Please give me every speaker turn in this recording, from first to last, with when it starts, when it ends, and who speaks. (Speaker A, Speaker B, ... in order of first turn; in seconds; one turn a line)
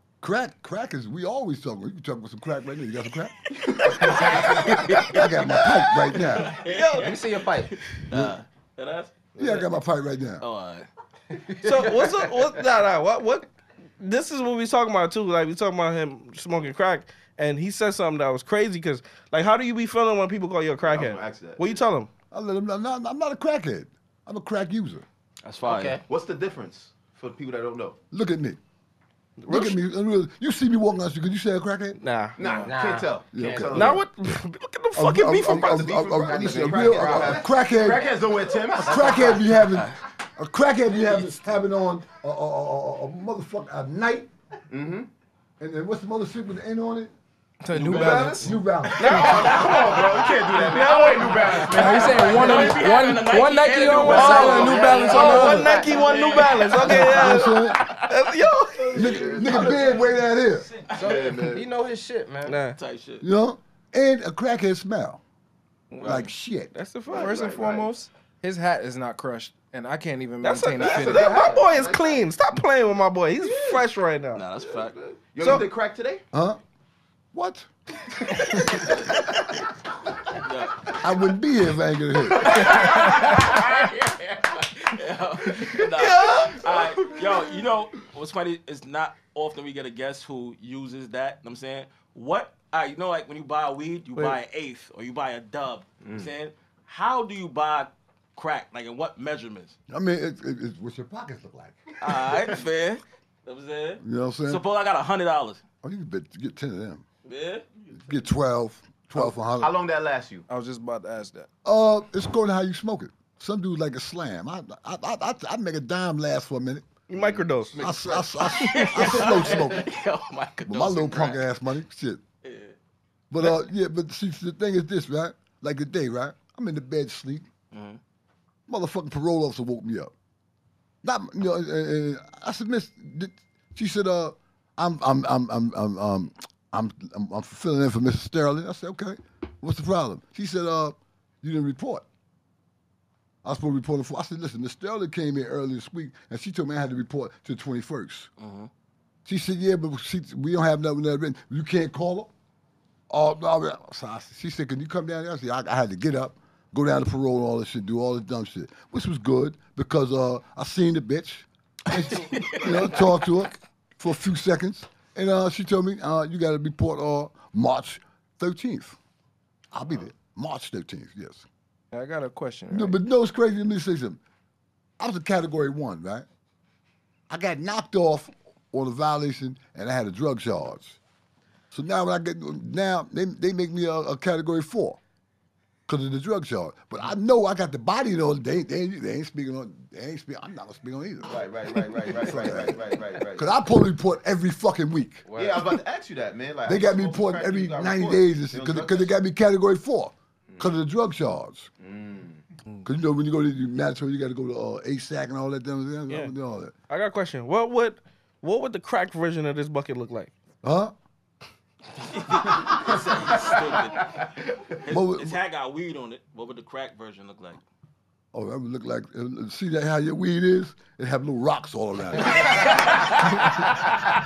Speaker A: 0.2-6.6
Speaker B: 3.6-9.6
Speaker C: 6.6-7.2
Speaker D: 7.0-7.7
Speaker A: 8.1-8.4
Speaker A: 9.3-10.4
Speaker B: 10.4-10.9
Speaker D: 11.3-12.2
Speaker C: 11.6-22.1
Speaker B: 11.7-12.6
Speaker E: 20.8-21.8
Speaker A: 22.3-25.0
Speaker B: 25.4-26.0
Speaker D: 25.6-26.0
Speaker E: 26.0-28.0
Speaker A: 28.1-28.6
Speaker C: 29.4-29.8
Speaker A: 29.5-32.0
Speaker C: 32.0-32.6
Speaker E: 32.4-34.0
Speaker F: 32.4-32.7
Speaker D: 32.6-33.8
Speaker A: 33.3-34.0
Speaker C: 33.7-36.0
Speaker A: 34.9-38.2
Speaker E: 35.5-39.5
Speaker D: 36.3-37.5
Speaker A: 38.8-44.3
Speaker D: 38.9-39.4
Speaker B: 39.7-40.0
Speaker E: 44.7-45.1
Speaker A: 45.6-47.1
Speaker F: 47.6-48.6
Speaker E: 47.7-53.1
Speaker A: 48.0-49.7
Speaker D: 48.0-48.4
Speaker C: 49.0-50.0
Speaker B: 49.0-50.6
Speaker C: 50.5-52.6
Speaker B: 51.5-58.0
Speaker F: 51.6-55.8
Speaker C: 54.0-59.7
Speaker E: 54.0-55.0
Speaker D: 55.1-56.2
Speaker A: 56.8-57.9
Speaker E: 58.9-60.0
Speaker A: 58.9-60.7
Speaker B: 60.9-61.3
Speaker D: 60.9-62.6
Speaker E: 61.0-61.7
Speaker C: 62.5-62.8
Speaker B: 62.7-63.2
Speaker A: 63.2-65.2
Speaker C: 65.9-66.2
Speaker B: 65.9-66.3
Speaker A: 66.0-66.7
Speaker C: 66.7-67.6
Speaker E: 67.1-67.9
Speaker F: 67.1-71.4
Speaker C: 70.4-74.4
Speaker E: 70.8-72.3
Speaker D: 71.2-71.6
Speaker E: 73.4-73.8
Speaker B: 74.3-74.9
Speaker E: 74.5-76.2
Speaker A: 76.3-76.6
Speaker A: 77.3-77.7
Speaker C: 78.4-78.7
Speaker B: 78.7-79.3
Speaker B: 80.3-81.0
Speaker A: 81.0-82.8
Speaker B: 82.3-99.8
Speaker C: 85.7-86.7
Speaker E: 96.0-96.3
Speaker A: 99.9-102.4
Speaker B: 102.0-105.6
Speaker A: 104.0-104.6
Speaker A: 105.8-107.0
Speaker B: 107.2-107.6
Speaker A: 108.0-109.7
Speaker E: 109.2-110.5
Speaker F: 110.5-111.5
Speaker A: 111.6-116.9
Speaker C: 117.1-117.8
Speaker E: 117.2-119.7
Speaker A: 117.7-119.9
Speaker B: 118.5-121.4
Speaker A: 120.7-122.2
Speaker B: 122.4-122.8
Speaker A: 123.3-127.5
Speaker B: 127.7-128.0
Speaker A: 128.7-130.1
Speaker A: 131.0-142.0
Speaker A: 143.4-148.3
Speaker B: 148.4-148.7
Speaker A: 149.2-152.3
Speaker A: 153.1-169.0
Speaker B: 161.9-163.3
Speaker A: 169.7-171.4
Speaker F: 171.9-173.0
Speaker A: 172.7-174.2
Speaker A: 175.0-176.2
Speaker A: 177.3-181.0
Speaker A: 181.7-185.0
Speaker A: 185.9-195.2
Speaker E: 191.2-193.5
Speaker D: 195.3-195.7
Speaker E: 195.3-199.1
Speaker A: 196.6-201.7
Speaker E: 200.5-200.7
Speaker E: 201.8-202.4
Speaker A: 202.8-206.7
Speaker C: 206.9-210.3
Speaker A: 210.6-210.9
Speaker B: 212.1-217.6
Speaker A: 214.9-215.4
Speaker A: 218.3-222.9
Speaker B: 222.4-223.7